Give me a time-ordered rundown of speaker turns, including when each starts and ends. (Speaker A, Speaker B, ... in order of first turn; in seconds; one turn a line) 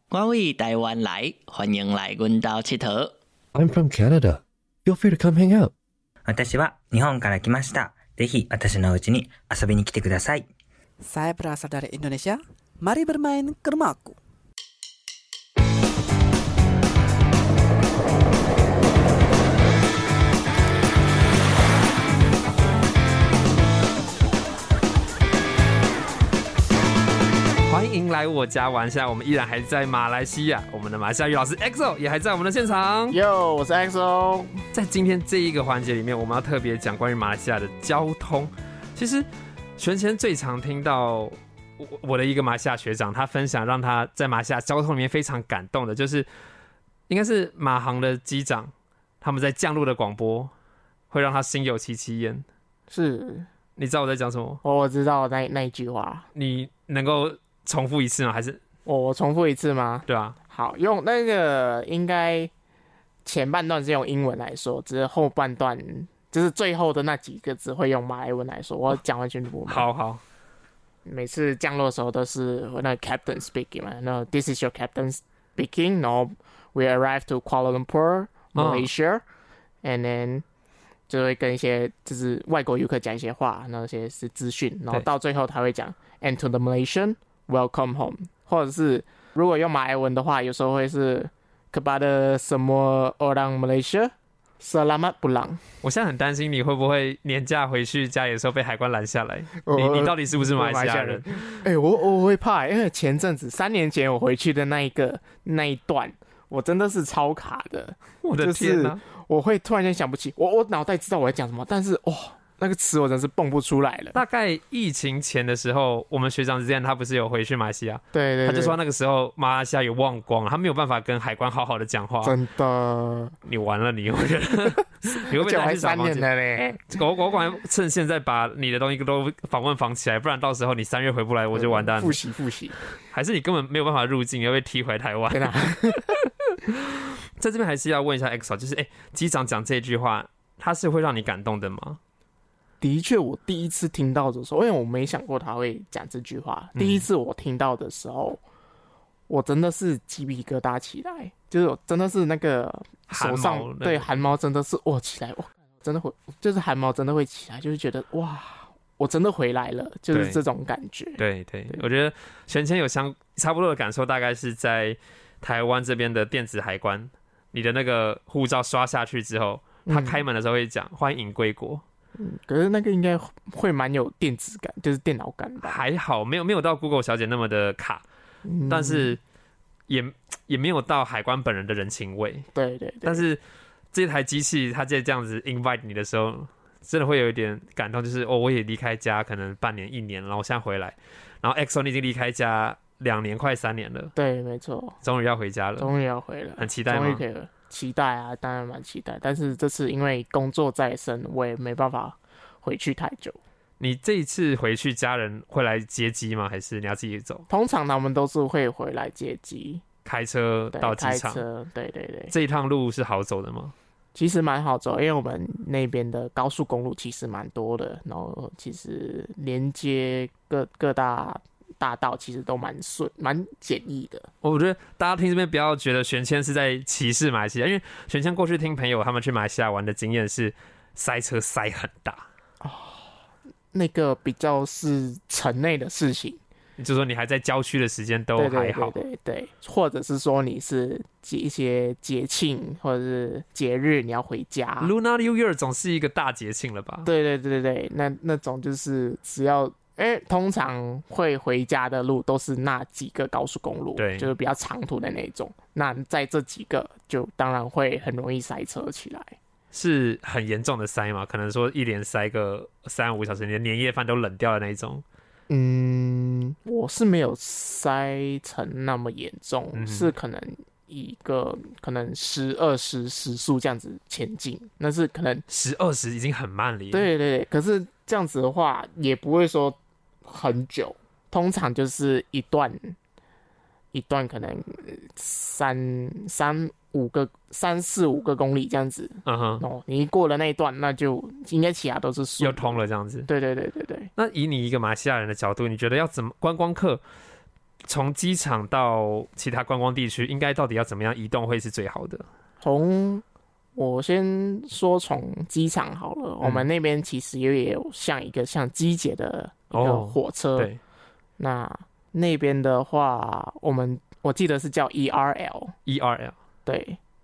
Speaker A: 0.1-3.1
Speaker B: 3.5-5.7
Speaker C: 6.2-10.5
Speaker D: 11.0-14.2
Speaker E: 27.6-33.2
Speaker F: 33.1-34.5
Speaker E: 34.7-46.3
Speaker E: 47.1-50.5
Speaker E: 51.1-52.4
Speaker F: 52.9-53.5
Speaker E: 53.8-54.6
Speaker F: 54.6-56.3
Speaker E: 56.3-58.6
Speaker F: 58.9-62.5
Speaker E: 60.1-60.4
Speaker F: 63.2-69.9
Speaker E: 69.7-70.2
Speaker F: 71.0-79.2
Speaker E: 78.5-78.9
Speaker F: 79.8-80.4
Speaker F: 81.1-95.6
Speaker E: 95.8-101.4
Speaker F: 99.6-114.2
Speaker E: 108.2-109.0
Speaker E: 114.1-122.3
Speaker F: 118.1-118.8
Speaker F: 122.2-123.3
Speaker E: 123.4-126.3
Speaker F: 125.1-127.0
Speaker E: 126.9-132.2
Speaker F: 131.5-132.8
Speaker E: 133.1-142.0
Speaker F: 135.3-136.2
Speaker F: 142.8-148.4
Speaker E: 146.7-147.1
Speaker F: 149.3-161.8
Speaker E: 153.1-154.1
Speaker E: 160.1-160.4
Speaker E: 161.2-171.8
Speaker F: 169.8-170.2
Speaker F: 172.2-175.8
Speaker E: 175.6-178.0
Speaker F: 178.4-179.2
Speaker E: 178.7-179.2
Speaker E: 179.9-182.5
Speaker F: 182.5-183.3
Speaker E: 183.0-183.4
Speaker E: 183.9-194.1
Speaker F: 194.1-195.0
Speaker E: 195.0-195.9
Speaker F: 195.8-203.4
Speaker E: 196.6-197.2
Speaker E: 203.8-207.4
Speaker F: 207.5-209.8
Speaker E: 210.0-211.4
Speaker F: 210.7-212.3
Speaker E: 212.3-213.7
Speaker F: 214.1-224.3
Speaker E: 224.4-232.3
Speaker F: 232.6-233.1
Speaker F: 233.7-236.4
Speaker E: 236.8-239.0
Speaker F: 238.3-244.9
Speaker E: 244.8-247.1
Speaker F: 247.0-259.4
Speaker E: 253.9-254.3
Speaker E: 259.7-265.0
Speaker F: 265.5-275.4
Speaker E: 269.7-270.1
Speaker E: 275.5-277.1
Speaker F: 276.9-282.9
Speaker F: 283.9-294.1
Speaker E: 289.2-289.6
Speaker E: 292.4-293.3
Speaker E: 294.1-297.0
Speaker E: 297.9-302.2
Speaker F: 302.6-303.2
Speaker F: 303.7-310.7
Speaker E: 306.4-306.7
Speaker E: 309.7-310.8
Speaker F: 311.4-315.8
Speaker E: 315.9-316.4
Speaker F: 316.6-317.0